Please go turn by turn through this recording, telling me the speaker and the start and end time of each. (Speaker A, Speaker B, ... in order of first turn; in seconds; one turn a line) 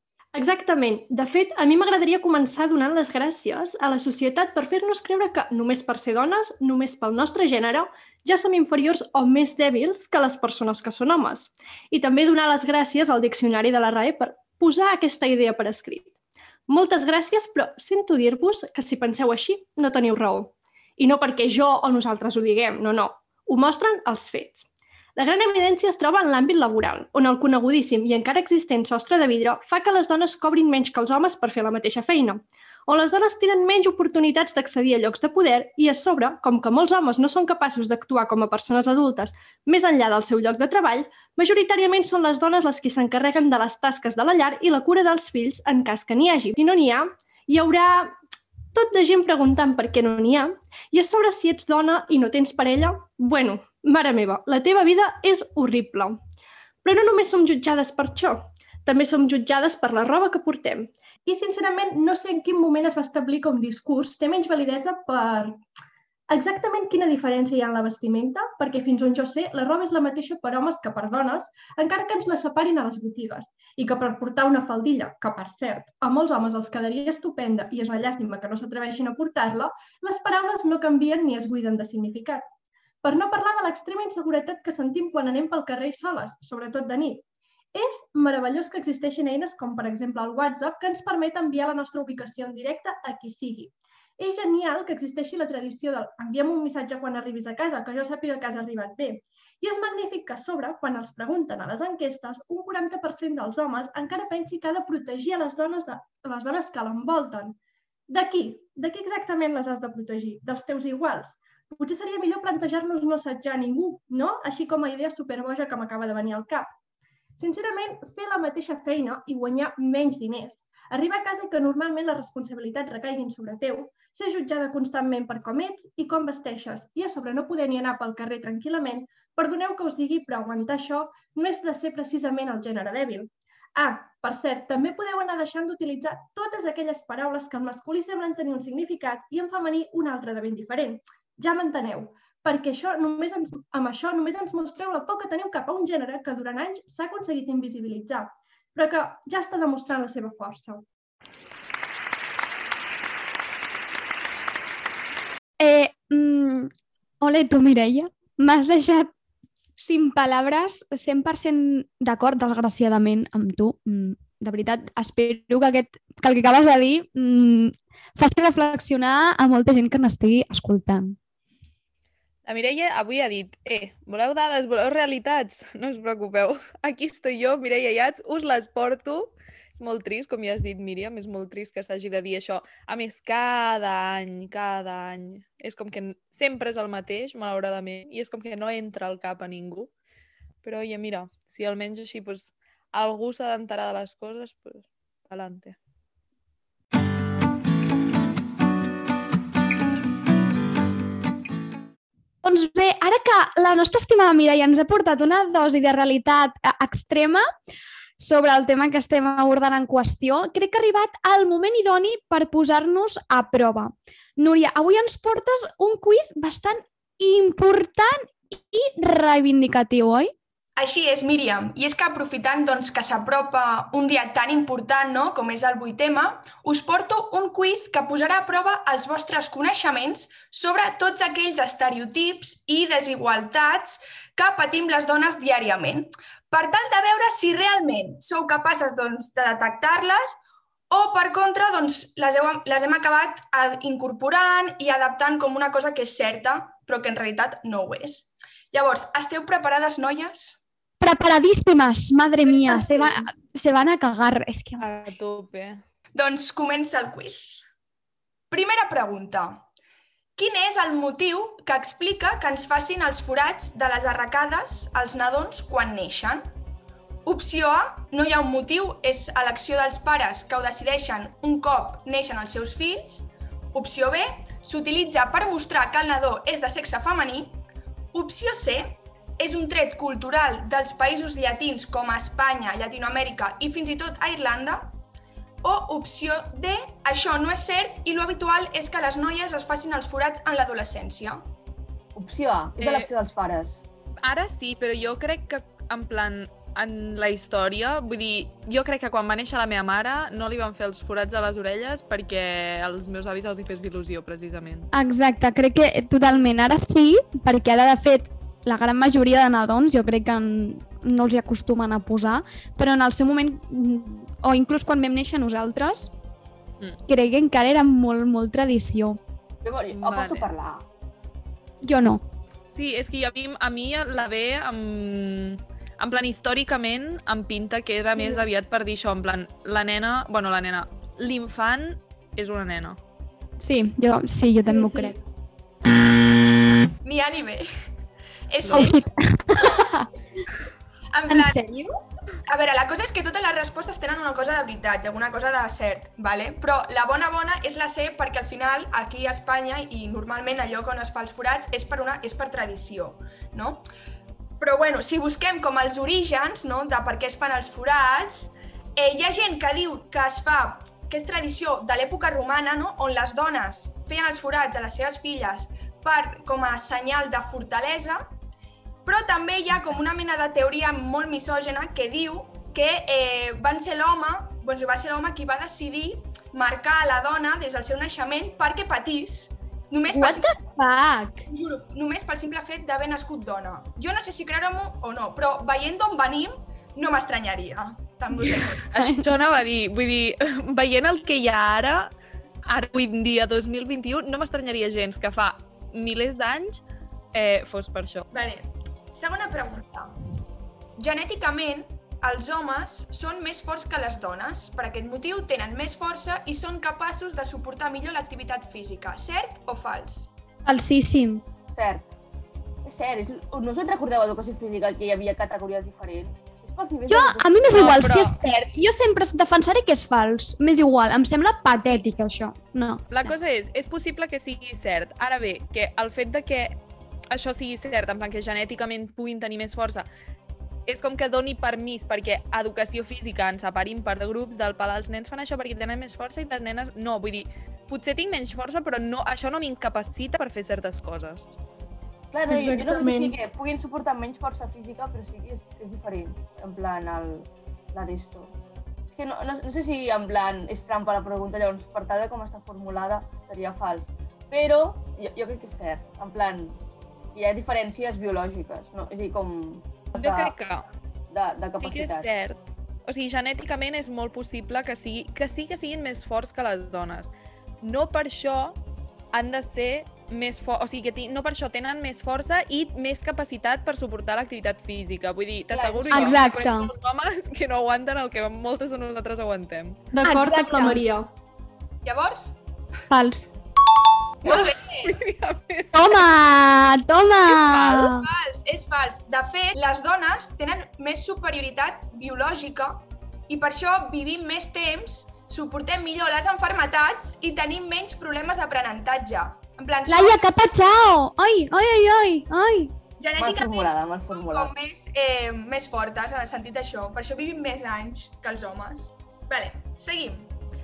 Speaker A: 0.3-16.1
Speaker A: 16.7-48.1
Speaker A: 48.7-56.2
Speaker A: 56.8-65.6
Speaker A: 66.3-82.5
Speaker A: 83.0-107.6
Speaker A: 108.1-116.7
Speaker A: 117.4-150.8
Speaker B: 155.6-156.7
Speaker B: 157.2-159.1
Speaker B: 159.8-171.2
Speaker C: 172.4-189.9
Speaker C: 190.6-195.8
Speaker B: 202.4-207.4
Speaker B: 208.2-220.3
Speaker D: 220.8-250.6
Speaker B: 251.0-255.1
Speaker D: 252.7-253.2
Speaker C: 254.8-255.8
Speaker D: 256.1-257.6
Speaker D: 258.5-259.6
Speaker D: 260.4-266.5
Speaker D: 267.2-277.6
Speaker D: 278.1-284.9
Speaker D: 285.6-291.4
Speaker E: 292.1-293.8
Speaker C: 292.8-293.1
Speaker C: 294.2-304.9
Speaker B: 304.9-316.1
Speaker B: 317.1-319.2
Speaker E: 319.6-320.8
Speaker C: 319.9-320.5
Speaker B: 321.8-322.2
Speaker C: 322.7-333.0
Speaker B: 333.6-335.1
Speaker A: 334.7-335.1
Speaker D: 337.0-337.7
Speaker D: 338.5-339.0
Speaker B: 338.7-340.1
Speaker D: 341.1-341.6
Speaker B: 341.3-341.9
Speaker D: 342.5-353.8
Speaker D: 354.6-368.3
Speaker D: 369.1-380.6
Speaker B: 380.1-381.4
Speaker D: 381.5-388.9
Speaker B: 388.4-389.2
Speaker C: 388.9-392.1
Speaker C: 392.6-396.8
Speaker C: 397.3-398.3
Speaker D: 398.3-400.1
Speaker D: 401.0-410.3
Speaker B: 410.6-411.4
Speaker E: 411.7-412.1
Speaker E: 412.8-418.0
Speaker B: 417.1-423.3
Speaker C: 417.7-418.4
Speaker C: 421.8-422.0
Speaker C: 423.1-426.7
Speaker C: 427.3-430.1
Speaker C: 430.9-441.6
Speaker E: 442.3-448.5
Speaker A: 442.5-443.3
Speaker E: 449.1-456.8
Speaker E: 457.3-460.5
Speaker C: 460.1-460.9
Speaker E: 461.3-462.3
Speaker C: 461.7-467.3
Speaker C: 467.8-468.8
Speaker C: 469.3-480.0
Speaker E: 475.7-476.4
Speaker B: 476.1-476.9
Speaker A: 480.1-481.3
Speaker B: 480.2-481.0
Speaker D: 482.0-482.6
Speaker B: 483.1-483.5
Speaker D: 484.4-485.1
Speaker C: 484.4-486.2
Speaker B: 485.9-488.2
Speaker C: 487.4-488.2
Speaker D: 488.2-500.6
Speaker B: 500.1-502.9
Speaker D: 503.2-510.5
Speaker E: 503.4-504.7